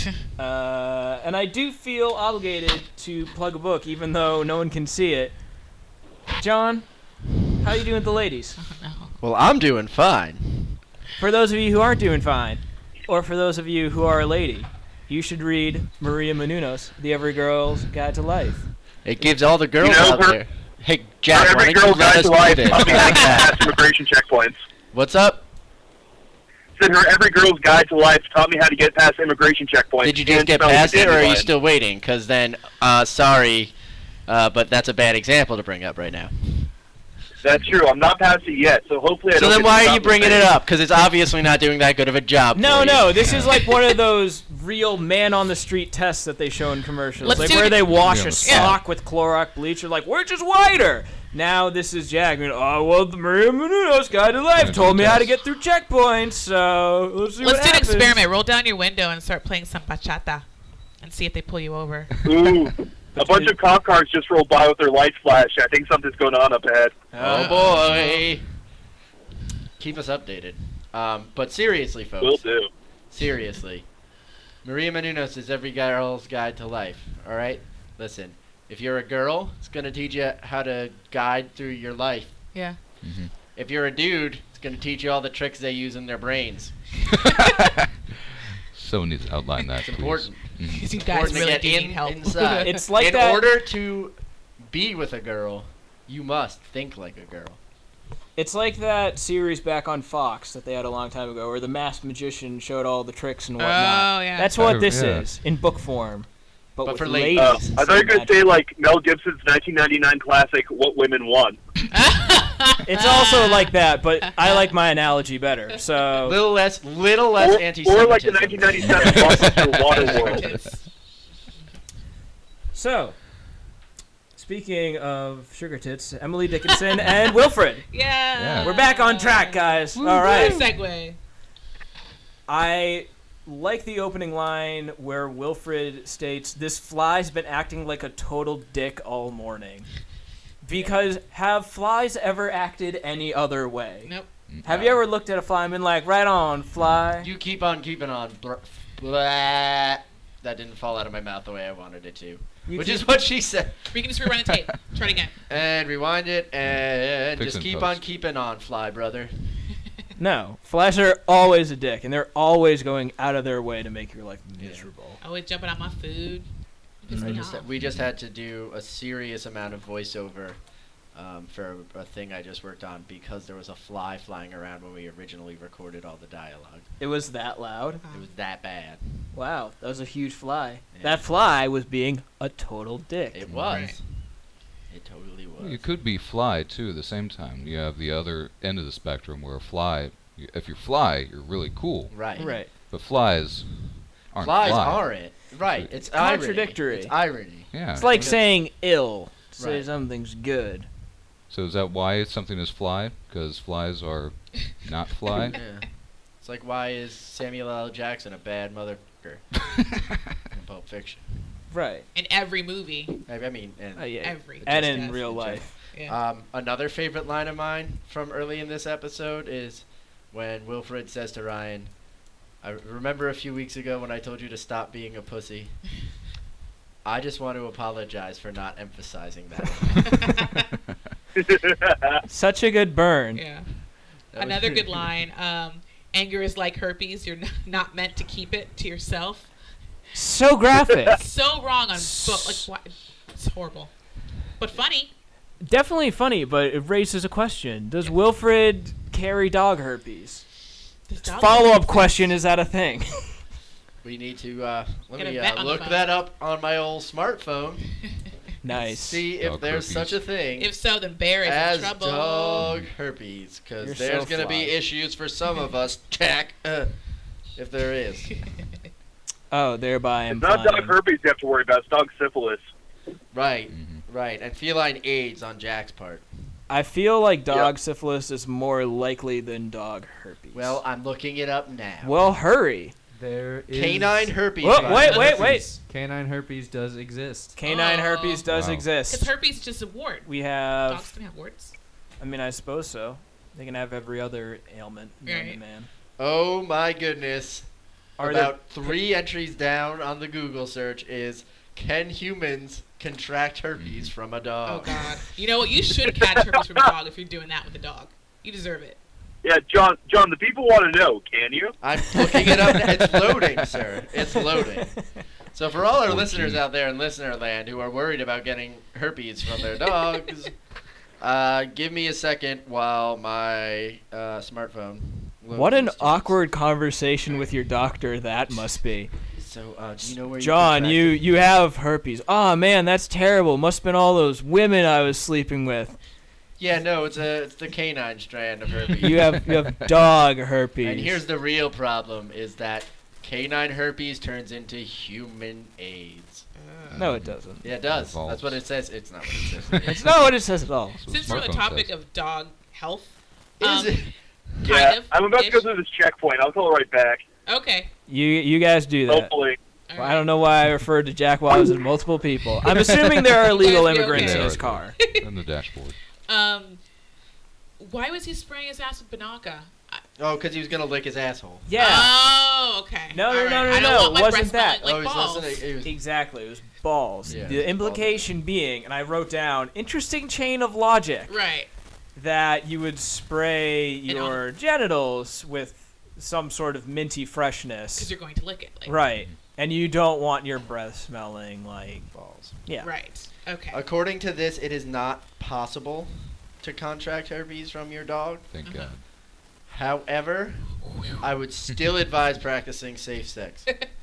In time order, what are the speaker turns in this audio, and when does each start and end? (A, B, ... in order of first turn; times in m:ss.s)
0:00.4-0:05.4 A
0:06.4-0:06.9 A
0:07.6-0:08.6 A
0:08.6-0:09.2 B
0:09.2-0:10.8 C
0:11.2-0:18.7 A
0:19.0-0:23.7 C
0:19.8-0:20.4 D
0:21.3-0:24.6 D
0:24.9-0:25.5 C
0:26.8-0:31.5 D
0:30.0-0:33.7 C
0:34.3-0:36.7 C
0:37.4-0:40.5 D
0:39.3-0:43.4 C
0:42.6-0:58.2 A
0:47.2-0:48.8 B
0:47.2-0:48.8 E
0:54.6-0:55.4 E
0:57.4-1:00.4 B
1:01.0-1:02.2 B
1:02.2-1:07.0 D
1:03.2-1:03.6 A
1:07.1-1:08.4 C
1:07.2-1:08.2 B
1:09.8-1:12.4 C
1:12.2-1:12.7 D
1:13.1-1:13.9 C
1:14.6-1:22.4 C
1:22.5-1:22.8 B
1:23.0-1:23.3 E
1:23.6-1:26.8 C
1:27.5-1:27.8 E
1:28.7-1:31.0 E
1:29.8-1:37.6 C
1:30.6-1:32.8 B
1:32.6-1:33.5 A
1:38.4-1:48.4 A
1:43.6-1:44.5 B
1:44.6-1:45.3 E
1:46.8-1:48.2 C
1:47.4-1:51.6 D
1:51.9-1:54.7 B
1:52.8-1:56.4 A
1:56.2-1:59.6 C
1:57.4-2:00.5 D
1:59.8-2:00.8 B
2:02.7-2:03.2 A
2:04.4-2:07.9 A
2:06.7-2:07.3 B
2:07.9-2:11.2 B
2:08.3-2:08.8 E
2:08.6-2:10.7 A
2:12.5-2:19.9 A
2:20.6-2:24.1 A
2:24.5-2:24.9 E
2:24.6-2:27.3 A
2:27.2-2:34.0 C
2:32.7-2:33.2 A
2:33.9-2:35.4 B
2:35.5-2:39.6 C
2:37.4-2:38.0 E
2:40.2-2:45.2 A
2:44.6-2:44.9 C
2:45.2-2:46.5 B
2:47.0-2:47.7 B
2:47.1-2:50.6 C
2:51.1-2:56.9 C
2:57.0-2:58.0 A
2:58.0-2:58.3 B
2:58.1-2:59.3 C
2:59.3-3:03.4 A
3:00.9-3:01.3 C
3:03.3-3:04.0 C
3:03.5-3:03.8 E
3:03.7-3:04.0 B
3:04.9-3:05.9 C
3:05.6-3:15.9 E
3:12.1-3:12.5 C
3:12.4-3:12.7 A
3:14.4-3:18.4 C
3:16.1-3:17.2 A
3:17.7-3:18.4 E
3:17.9-3:20.9 A
3:19.6-3:19.9 C
3:21.5-3:25.6 E
3:25.5-3:25.9 C
3:26.4-3:29.5 C
3:30.5-3:31.5 C
3:31.7-3:32.1 A
3:32.1-3:33.2 B
3:33.3-3:41.9 C
3:34.0-3:35.7 A
3:34.2-3:36.2 B
3:42.6-3:45.8 C
3:47.0-3:50.3 C
3:50.0-3:50.7 B
3:51.4-3:52.2 D
3:52.3-3:53.4 A
3:53.4-3:53.7 B
3:54.3-3:55.1 C
3:54.4-3:59.5 B
4:00.1-4:01.2 A
4:01.1-4:03.9 B
4:02.0-4:02.7 A
4:04.6-4:05.1 B
4:05.6-4:10.4 A
4:11.1-4:12.3 B
4:11.3-4:13.3 A
4:14.0-4:17.8 C
4:15.2-4:16.2 B
4:18.6-4:19.2 A
4:19.0-4:20.7 C
4:19.4-4:20.2 E
4:20.6-4:22.7 B
4:21.4-4:26.9 C
4:22.6-4:22.9 E
4:23.8-4:24.8 A
4:27.6-4:28.3 C
4:29.5-4:31.0 A
4:30.3-4:32.6 D
4:33.3-4:36.3 C
4:33.7-4:34.0 E
4:36.7-4:40.8 A
4:40.5-4:42.2 C
4:42.0-4:42.9 A
4:43.1-4:47.6 F
4:43.7-4:45.6 C
4:44.6-4:45.7 A
4:44.8-4:45.6 B
4:47.6-4:49.3 A
4:47.6-4:48.5 B
4:48.5-4:48.9 E
4:49.1-4:50.3 B
4:50.3-4:51.1 A
4:50.8-4:51.7 B
4:52.2-4:55.9 A
4:55.2-4:55.6 B
4:56.2-4:57.7 C
4:58.2-4:59.0 A
4:58.2-5:05.2 C
5:03.8-5:04.1 E
5:04.6-5:09.0 B
5:09.4-5:11.8 D
5:11.8-5:15.0 C
5:15.5-5:20.5 C
5:16.1-5:16.6 E
5:21.2-5:26.4 C
5:25.5-5:29.1 A
5:29.4-5:31.2 C
5:30.4-5:36.0 A
5:36.6-5:39.5 C
5:39.0-5:41.2 A
5:40.8-5:46.5 C
5:46.6-5:47.0 B
5:46.9-5:48.6 E
5:47.0-5:47.7 A
5:47.6-5:50.0 C
5:49.8-5:51.0 A
5:51.0-5:51.9 E
5:51.1-5:54.1 B
5:53.6-5:54.1 C
5:54.6-5:55.7 B
5:54.7-5:57.2 D
5:57.5-5:57.9 B
5:58.1-5:59.3 A
5:59.1-5:59.6 D
5:59.9-6:00.3 B
6:00.0-6:05.0 A
6:03.4-6:05.3 B
6:04.1-6:06.0 E
6:06.3-6:06.8 B
6:07.8-6:10.0 B
6:10.2-6:11.7 C
6:11.7-6:12.2 A
6:11.8-6:15.6 B
6:13.1-6:14.8 A
6:14.8-6:15.9 C
6:15.8-6:21.3 A
6:17.2-6:17.6 E
6:17.3-6:18.4 C
6:21.3-6:21.7 B
6:22.2-6:28.1 A
6:24.1-6:24.4 B
6:28.0-6:29.0 B
6:28.9-6:32.1 A
6:32.1-6:32.6 C
6:32.8-6:33.8 B
6:33.7-6:38.5 C
6:38.5-6:39.0 E
6:38.6-6:38.9 B
6:39.7-6:43.7 C
6:40.9-6:41.2 B